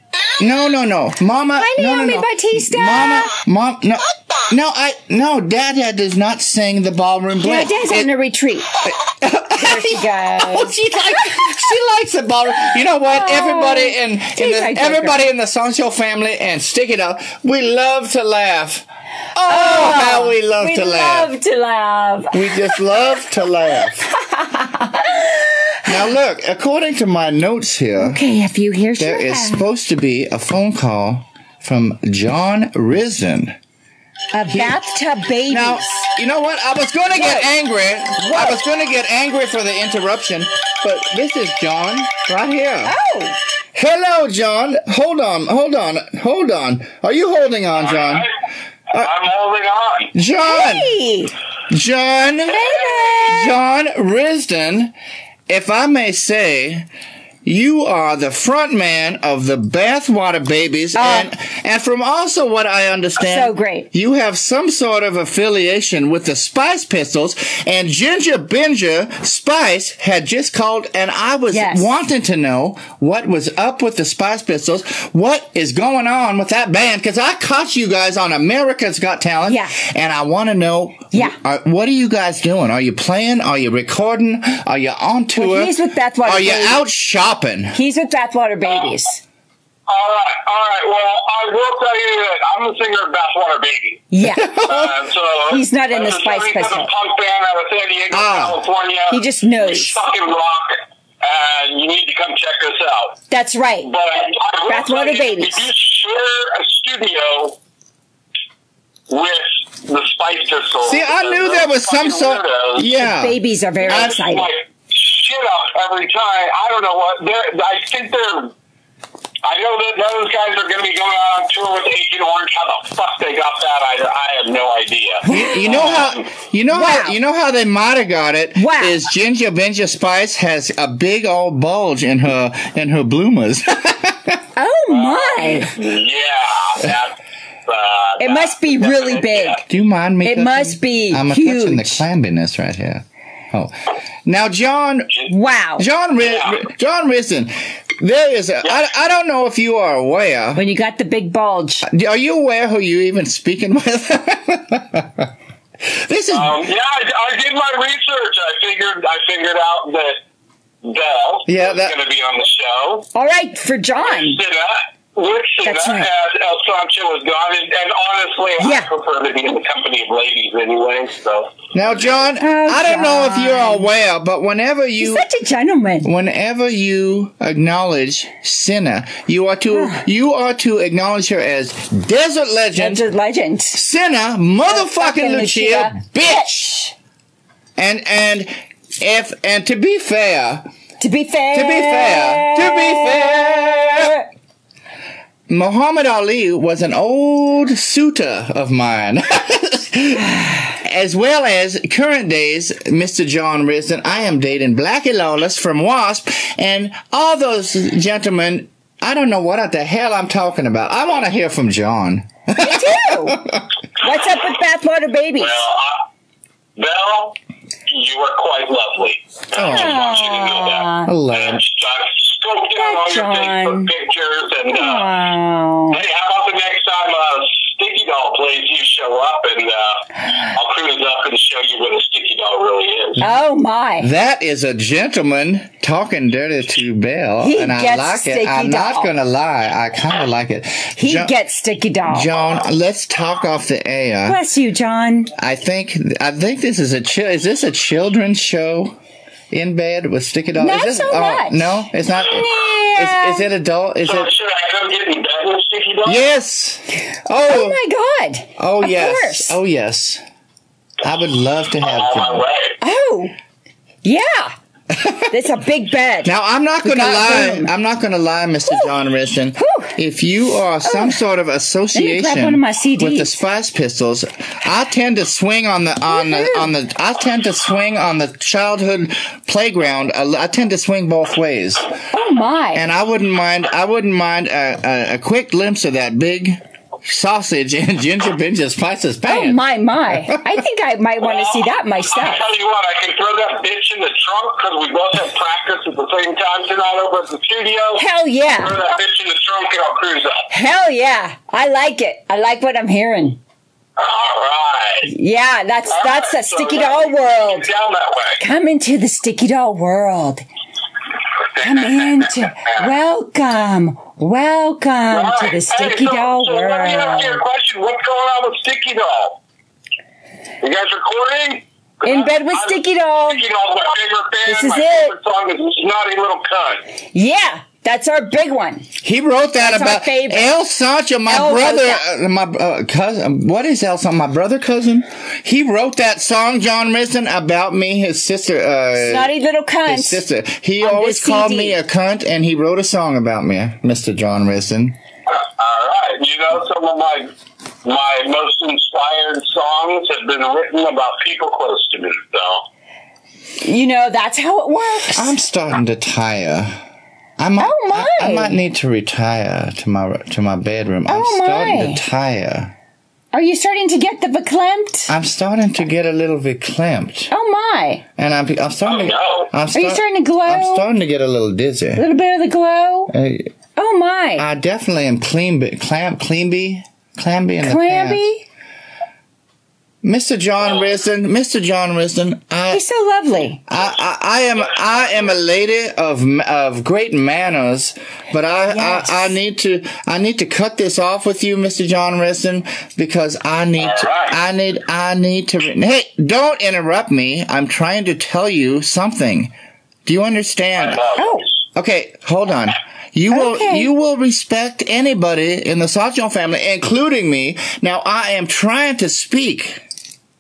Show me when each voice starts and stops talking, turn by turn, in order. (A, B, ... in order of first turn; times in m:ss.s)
0:00.4-0:08.1 A
0:01.6-0:03.3 B
0:07.4-0:08.7 B
0:08.8-0:21.3 A
0:09.5-0:10.8 B
0:13.0-0:15.2 B
0:19.4-0:22.8 B
0:22.3-0:24.1 A
0:24.1-0:25.9 B
0:25.8-0:28.2 A
0:28.0-0:29.6 B
0:29.0-0:33.6 A
0:34.3-0:36.1 B
0:34.5-0:34.8 A
0:35.5-0:42.9 A
0:37.1-0:37.5 B
0:38.2-0:38.6 B
0:42.8-0:43.4 B
0:43.7-0:48.3 A
0:47.8-0:48.3 C
0:48.9-0:50.1 C
0:50.1-0:51.0 A
0:50.4-0:51.3 B
0:51.7-0:52.6 A
0:52.5-0:53.2 C
0:52.5-0:53.5 B
0:53.2-0:54.9 A
0:55.5-0:56.9 A
0:57.4-1:27.8 A
1:00.9-1:01.3 B
1:03.2-1:03.9 B
1:11.5-1:11.9 B
1:19.4-1:19.8 B
1:21.1-1:21.4 B
1:25.4-1:26.8 B
1:27.7-1:29.2 B
1:29.9-1:34.0 C
1:34.1-1:34.6 B
1:34.2-1:35.0 A
1:34.6-1:43.2 C
1:35.5-1:36.9 B
1:38.1-1:38.6 A
1:39.1-1:40.0 B
1:43.3-1:43.9 B
1:43.8-1:47.6 C
1:44.7-1:45.7 B
1:49.1-1:52.9 C
1:50.8-1:54.1 A
1:52.9-1:54.5 B
1:53.8-1:58.5 C
1:59.4-2:06.3 C
2:05.2-2:06.0 B
2:05.2-2:14.4 A
2:06.7-2:07.2 B
2:08.6-2:09.0 B
2:14.6-2:15.7 B
2:14.9-2:17.2 C
2:17.7-2:19.6 C
2:18.2-2:19.6 B
2:19.6-2:25.1 A
2:20.2-2:22.0 B
2:25.3-2:25.9 B
2:25.8-2:30.6 A
2:26.2-2:26.6 C
2:30.5-2:31.9 B
2:31.8-2:35.3 A
2:35.8-2:36.7 A
2:36.3-2:40.2 C
2:40.8-2:43.1 C
2:41.5-2:41.9 A
2:43.1-2:44.4 B
2:44.0-2:51.6 C
2:45.6-2:46.1 B
2:48.6-2:48.9 B
2:51.7-2:55.2 A
2:52.4-2:53.9 B
2:55.0-2:56.1 B
2:56.0-3:03.0 A
2:59.7-3:00.0 B
3:02.8-3:03.8 B
3:03.7-3:06.9 A
3:04.6-3:06.8 B
3:07.8-3:10.7 A
3:11.0-3:14.2 B
3:11.5-3:14.2 A
3:15.5-3:33.7 A
3:32.6-3:33.4 B
3:34.0-3:35.6 B
3:35.4-3:36.0 C
3:36.8-3:37.4 C
3:37.9-3:45.1 C
3:39.5-3:40.0 A
3:39.6-3:41.1 B
3:41.0-3:41.6 A
3:42.7-3:43.9 B
3:44.7-3:46.0 B
3:45.9-3:53.2 C
3:53.2-3:54.1 B
3:54.0-4:01.4 A
3:57.4-3:59.1 B
4:01.0-4:02.3 B
4:02.1-4:04.4 A
4:04.2-4:05.3 B
4:05.4-4:09.0 A
4:09.5-4:14.3 A
4:10.6-4:13.5 B
4:14.0-4:16.2 C
4:16.0-4:17.8 A
4:17.4-4:19.6 B
4:18.6-4:20.2 A
4:21.0-4:22.4 A
4:21.8-4:22.8 C
4:22.8-4:23.3 B
4:24.0-4:24.5 B
4:24.9-4:25.4 A
4:25.3-4:27.7 B
4:26.2-4:41.9 A
4:28.7-4:28.9 B
4:29.6-4:30.0 B
4:30.8-4:31.2 B
4:31.9-4:33.4 B
4:36.1-4:36.7 B
4:42.1-4:42.8 B
4:42.7-4:50.6 A
4:49.3-4:52.4 B
4:51.2-5:00.5 C
4:58.0-4:58.8 B
5:00.5-5:03.4 B
5:04.0-5:05.1 C
5:05.0-5:07.7 B
5:05.9-5:08.4 C
5:08.4-5:10.4 B
5:11.5-5:12.9 C
5:11.6-5:17.4 B
5:15.1-5:19.4 C
5:20.6-5:26.8 C
5:22.0-5:23.4 B
5:24.4-5:25.1 B
5:27.1-5:28.9 B
5:29.0-5:39.3 A
5:29.6-5:30.5 B
5:31.3-5:32.0 B
5:39.0-5:40.2 B
5:39.8-5:45.0 A
5:40.8-5:41.8 B
5:45.3-5:47.3 C
5:47.8-5:52.6 C
5:53.6-5:55.4 B
5:55.1-5:56.8 A
5:57.4-6:02.7 A
5:57.6-5:58.6 B
6:01.1-6:02.0 B
6:03.3-6:05.1 B
6:05.1-6:07.3 A
6:07.3-6:08.0 B
6:08.2-6:12.0 A
6:08.8-6:09.5 C
6:09.7-6:10.9 B
6:11.9-6:13.1 B
6:13.1-6:13.5 A
6:13.8-6:14.5 B
6:14.4-6:18.2 A
6:17.6-6:18.4 B
6:20.0-6:22.8 A
6:22.7-6:23.6 B
6:23.7-6:39.5 A
6:24.7-6:25.3 C
6:28.7-6:29.3 B
6:33.8-6:34.4 C
6:40.0-6:41.0 A
6:40.8-6:41.6 C
6:41.2-6:41.5 B
6:41.7-6:49.8 A
6:43.3-6:43.9 B